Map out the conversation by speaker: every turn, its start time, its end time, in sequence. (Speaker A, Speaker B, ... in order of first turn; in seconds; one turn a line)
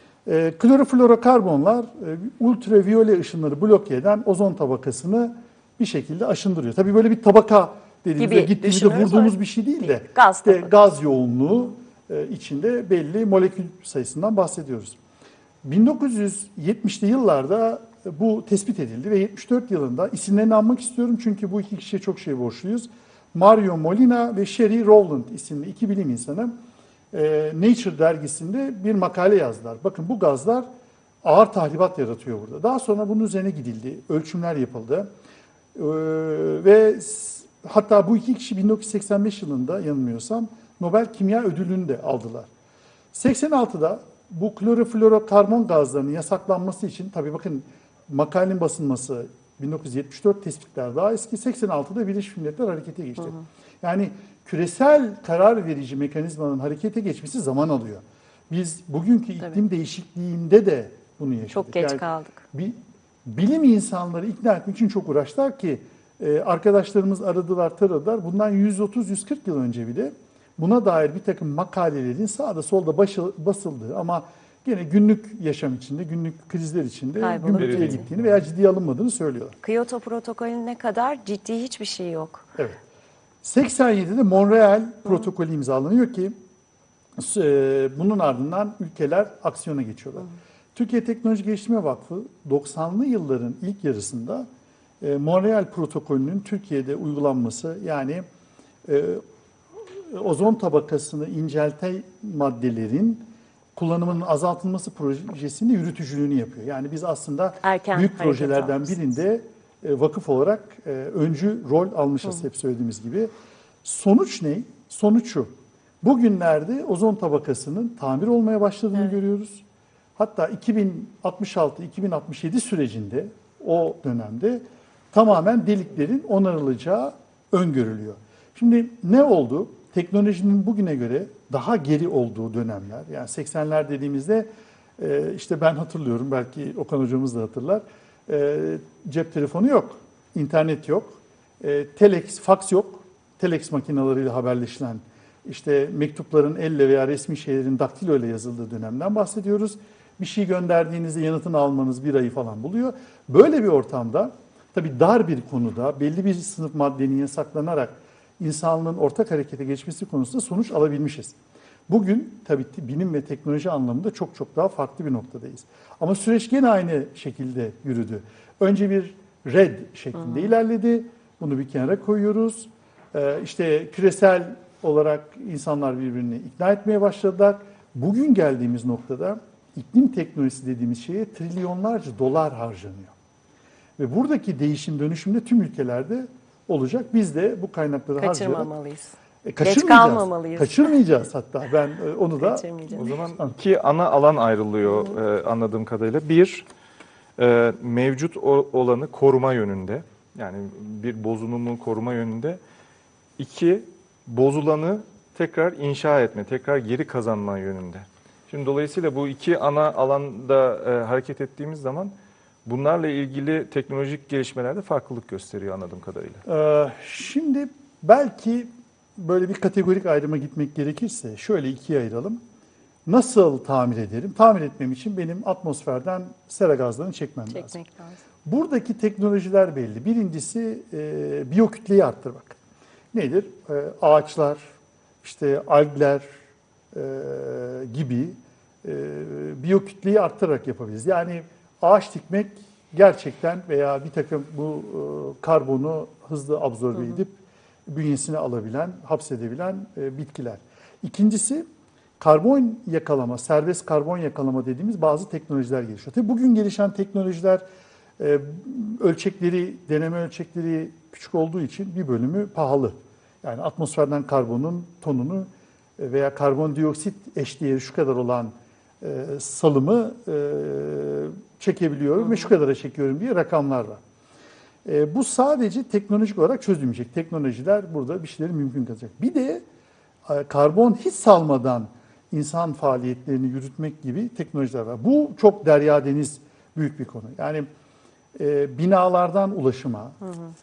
Speaker A: 0.2-15.0
Speaker B: 8.2-10.8
Speaker A: 15.6-26.5
Speaker A: 27.1-30.7
Speaker A: 31.2-35.1
Speaker A: 35.7-42.5
Speaker A: 43.1-79.6
Speaker B: 61.5-62.4
Speaker B: 77.2-78.0
Speaker C: 77.6-78.2
Speaker B: 79.6-82.5
Speaker A: 83.4-86.3
Speaker A: 87.2-94.5
Speaker A: 95.0-98.2
Speaker A: 98.8-99.2
Speaker A: 99.9-113.3
Speaker B: 107.6-108.9
Speaker A: 113.8-119.6
Speaker A: 120.2-161.3
Speaker A: 161.9-183.1
Speaker A: 184.0-188.7
Speaker B: 188.2-190.9
Speaker A: 189.4-192.7
Speaker B: 192.4-193.2
Speaker C: 192.9-196.6
Speaker C: 197.4-202.6
Speaker C: 203.4-212.1
Speaker C: 212.6-216.4
Speaker A: 216.4-222.4
Speaker A: 223.1-227.8
Speaker B: 227.5-228.2
Speaker A: 228.4-232.6
Speaker A: 233.1-234.6
Speaker A: 235.2-236.2
Speaker A: 236.9-247.3
Speaker A: 247.9-251.6
Speaker A: 252.2-257.6
Speaker A: 258.2-274.0
Speaker A: 274.8-279.6
Speaker A: 280.2-287.6
Speaker A: 288.4-290.2